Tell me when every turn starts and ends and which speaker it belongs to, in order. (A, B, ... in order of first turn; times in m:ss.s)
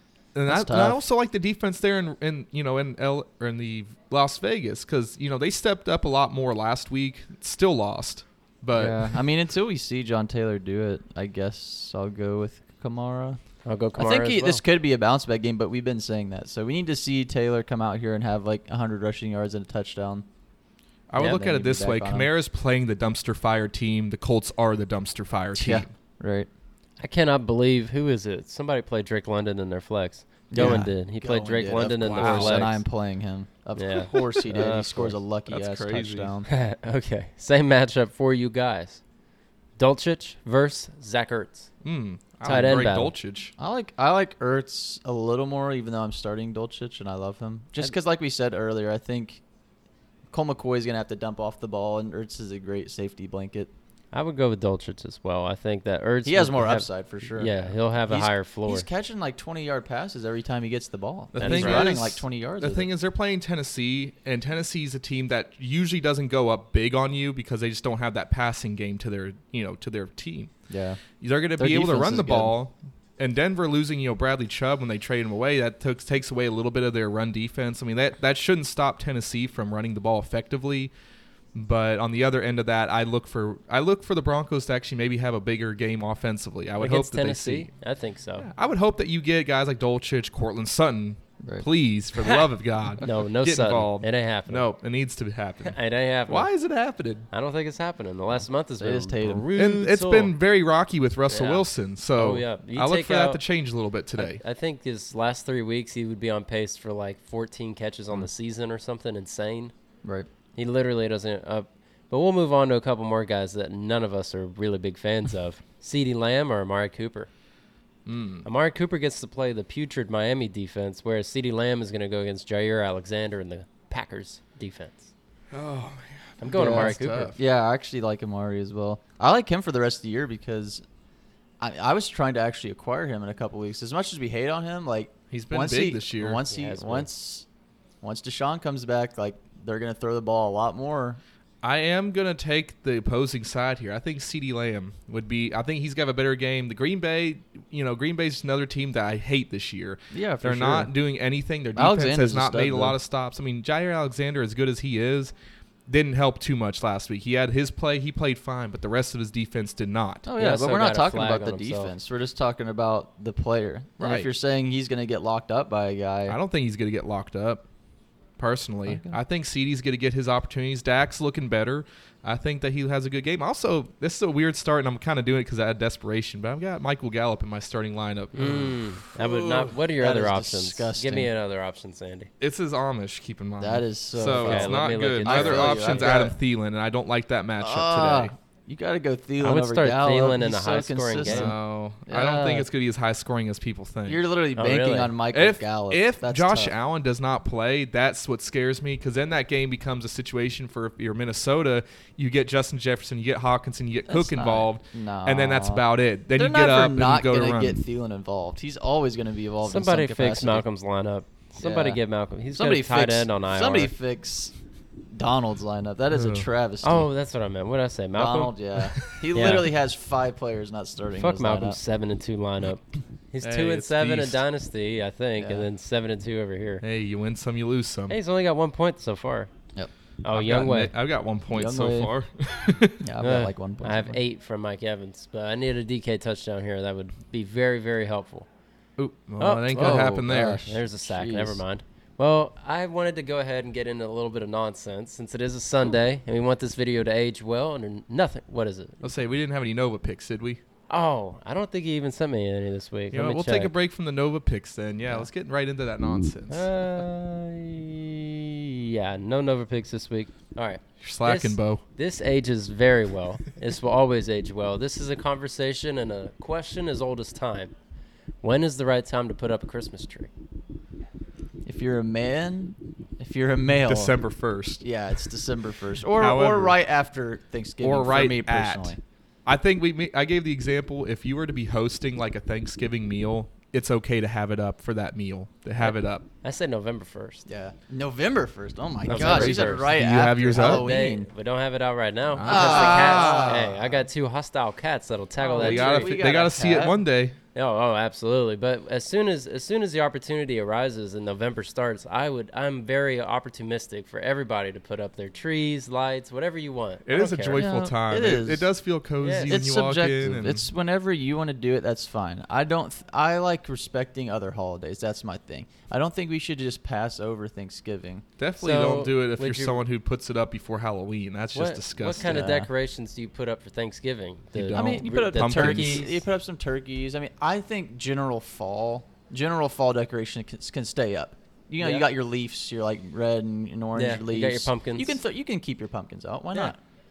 0:00.3-0:09.2 A
0:00.5-0:01.0 B
0:08.7-0:13.4 B
0:13.6-0:14.6 C
0:14.0-0:20.2 B
0:21.1-0:25.9 A
0:21.2-0:22.3 B
0:25.5-0:26.5 B
0:27.0-0:32.8 C
0:30.5-0:36.5 B
0:32.0-0:32.7 A
0:33.8-0:35.1 C
0:35.5-0:36.3 A
0:36.5-0:39.0 C
0:39.8-0:41.7 C
0:41.8-0:43.5 A
0:42.4-0:43.1 C
0:43.6-0:49.4 B
0:50.3-0:53.7 B
0:54.1-0:58.9 C
0:56.2-1:02.9 B
1:01.3-1:10.5 A
1:01.4-1:01.9 C
1:10.7-1:11.0 B
1:11.2-1:20.9 A
1:11.6-1:12.5 B
1:21.5-1:27.7 A
1:26.8-1:28.5 C
1:28.4-1:37.2 A
1:33.0-1:34.7 C
1:35.6-1:36.5 C
1:37.3-1:40.4 C
1:38.8-1:39.4 B
1:39.5-1:44.4 A
1:41.3-1:43.4 C
1:44.2-1:49.7 C
1:50.6-1:57.3 C
1:58.0-1:58.5 A
1:58.4-2:05.1 C
2:05.5-2:07.4 A
2:06.4-2:07.3 C
2:06.5-2:10.8 B
2:11.6-2:17.5 B
2:15.3-2:16.4 A
2:16.5-2:17.1 C
2:18.0-2:21.2 B
2:21.6-2:35.3 A
2:30.1-2:30.9 B
2:31.7-2:33.0 B
2:35.9-2:40.3 A
2:40.2-2:46.4 B
2:40.4-2:41.9 C
2:44.0-2:44.3 A
2:46.3-2:47.6 A
2:48.4-2:59.6 A
2:48.9-2:49.2 B
2:58.3-3:02.3 C
2:59.2-3:01.3 B
3:02.4-3:08.3 A
3:03.6-3:06.4 B
3:04.3-3:06.3 C
3:07.6-3:11.5 B
3:09.4-3:11.5 C
3:11.2-3:14.2 A
3:12.1-3:12.7 B
3:14.1-3:16.7 B
3:14.6-3:15.1 C
3:15.3-3:27.8 A
3:24.1-3:30.6 B
3:29.6-3:33.9 C
3:31.6-3:32.0 B
3:32.5-3:34.5 B
3:35.1-3:37.1 B
3:36.1-3:36.5 A
3:36.8-3:38.5 C
3:38.1-3:41.8 B
3:39.3-3:39.7 C
3:41.2-3:46.8 C
3:43.4-3:44.4 A
3:45.4-3:45.7 B
3:46.8-3:48.2 A
3:48.1-3:49.5 C
3:50.2-3:50.9 C
3:50.3-3:53.0 A
3:51.5-3:52.1 B
3:53.0-3:54.2 B
3:53.2-3:58.4 C
3:59.0-4:00.6 A
3:59.4-4:09.0 C
3:59.8-4:01.6 B
4:09.0-4:10.6 A
4:10.9-4:13.7 C
4:13.1-4:16.6 A
4:16.5-4:27.7 C
4:21.0-4:21.8 A
4:28.4-4:30.3 C
4:31.6-4:34.2 B
4:33.8-4:34.8 A
4:34.8-4:39.0 B
4:36.1-4:36.8 A
4:37.8-4:46.2 A
4:45.8-4:47.5 C
4:47.5-4:51.3 B
4:49.0-4:56.2 C
4:49.1-4:50.9 A
4:52.3-4:53.6 A
4:52.4-4:54.0 B
4:55.4-4:57.0 B
4:55.6-4:57.4 A
4:57.5-5:07.7 C
5:07.0-5:10.7 A
5:07.5-5:08.7 B
5:09.2-5:09.6 C
5:09.4-5:18.2 B
5:18.4-5:22.5 A
5:18.6-5:19.8 C
5:21.5-5:26.2 C
5:22.2-5:22.7 B
5:24.5-5:26.0 A
5:24.7-5:36.8 B
5:31.8-5:32.1 C
5:33.9-5:35.2 C